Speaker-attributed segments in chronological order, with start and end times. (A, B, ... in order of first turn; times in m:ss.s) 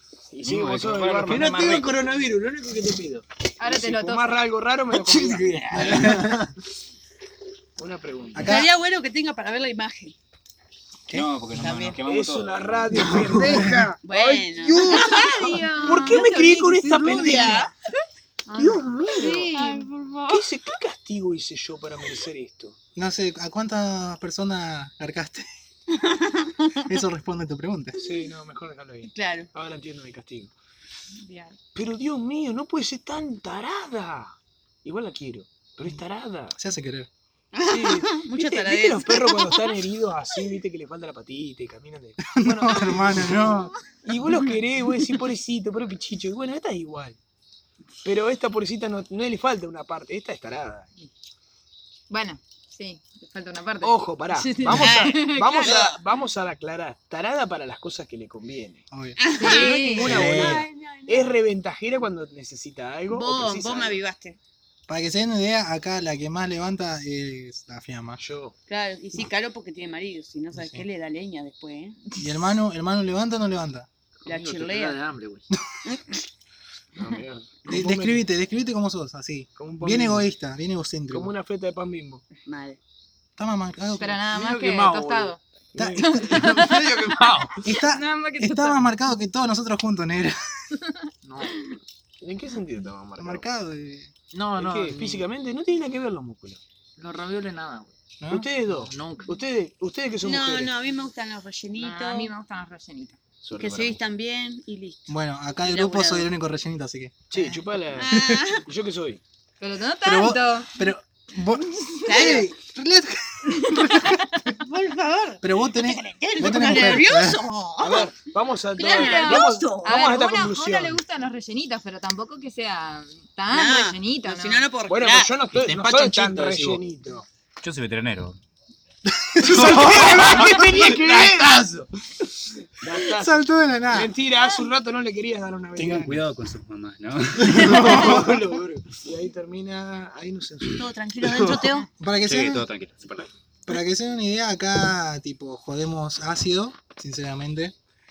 0:00.3-0:05.8 A
0:00.4-0:02.0 B
0:01.3-0:02.2 C
0:03.6-0:04.4 D
0:05.1-0:06.5 C
0:05.7-0:06.4 E
0:07.8-0:08.5 A
0:08.3-0:08.7 E
0:08.4-0:10.2 F
0:11.1-0:13.2 B
0:11.5-0:12.0 F
0:12.1-0:17.7 A
0:13.2-0:13.9 E
0:14.0-0:17.7 F
0:14.7-0:17.7 D
0:18.5-0:19.9 D
0:18.5-0:20.5 F
0:18.6-0:19.5 A
0:20.3-0:22.8 A
0:22.9-0:25.5 E
0:25.9-0:26.8 F
0:26.9-0:28.0 E
0:27.9-0:30.5 A
0:29.1-0:29.5 F
0:31.2-0:31.6 D
0:31.7-0:36.6 A
0:36.6-0:37.1 E
0:37.5-0:39.6 F
0:37.7-0:43.2 A
0:42.3-0:43.7 E
0:44.0-0:47.2 A
0:48.0-0:50.9 A
0:52.1-0:55.7 D
0:53.8-0:58.8 A
0:54.7-0:55.9 F
0:58.9-0:59.2 E
0:59.2-1:01.4 F
0:59.4-1:00.2 D
0:59.4-1:04.0 A
1:00.0-1:00.6 E
1:03.1-1:04.4 F
1:04.9-1:08.2 E
1:08.2-1:08.6 A
1:08.7-1:12.0 F
1:10.5-1:10.8 E
1:12.2-1:13.9 E
1:14.2-1:15.5 C
1:14.2-1:15.0 F
1:15.8-1:16.1 F
1:16.9-1:18.2 A
1:17.7-1:21.3 E
1:19.6-1:20.2 A
1:21.1-1:22.2 A
1:22.4-1:22.8 F
1:23.4-1:24.2 E
1:24.0-1:25.4 D
1:24.3-1:25.4 C
1:25.7-1:26.1 A
1:25.7-1:26.4 E
1:26.0-1:28.9 D
1:26.3-1:27.6 C
1:27.6-1:30.4 E
1:31.2-1:31.7 C
1:32.2-1:33.5 A
1:33.2-1:34.1 E
1:34.3-1:35.2 C
1:34.6-1:36.6 A
1:37.0-1:37.9 C
1:38.2-1:38.5 E
1:38.3-1:40.7 A
1:38.7-1:39.3 C
1:40.2-1:42.3 F
1:41.8-1:43.2 D
1:43.4-1:44.0 A
1:43.5-1:46.3 F
1:45.1-1:48.4 E
1:47.3-1:49.2 A
1:48.0-1:48.6 F
1:49.6-1:50.7 D
1:50.0-1:54.2 E
1:52.0-1:52.5 F
1:53.7-1:54.2 D
1:54.4-1:58.1 F
1:55.4-1:57.4 E
1:57.8-2:01.0 A
1:58.8-2:04.7 D
1:58.8-2:00.1 F
2:03.5-2:05.4 F
2:04.9-2:07.2 A
2:05.5-2:06.8 C
2:07.6-2:08.4 B
2:09.2-2:10.5 E
2:09.4-2:11.7 A
2:09.5-2:11.9 C
2:12.8-2:16.2 A
2:13.1-2:14.1 E
2:15.8-2:17.9 B
2:17.5-2:18.9 C
2:17.6-2:18.4 E
2:17.7-2:20.9 A
2:20.8-2:21.9 F
2:22.0-2:22.6 E
2:22.2-2:23.3 B
2:23.7-2:27.7 E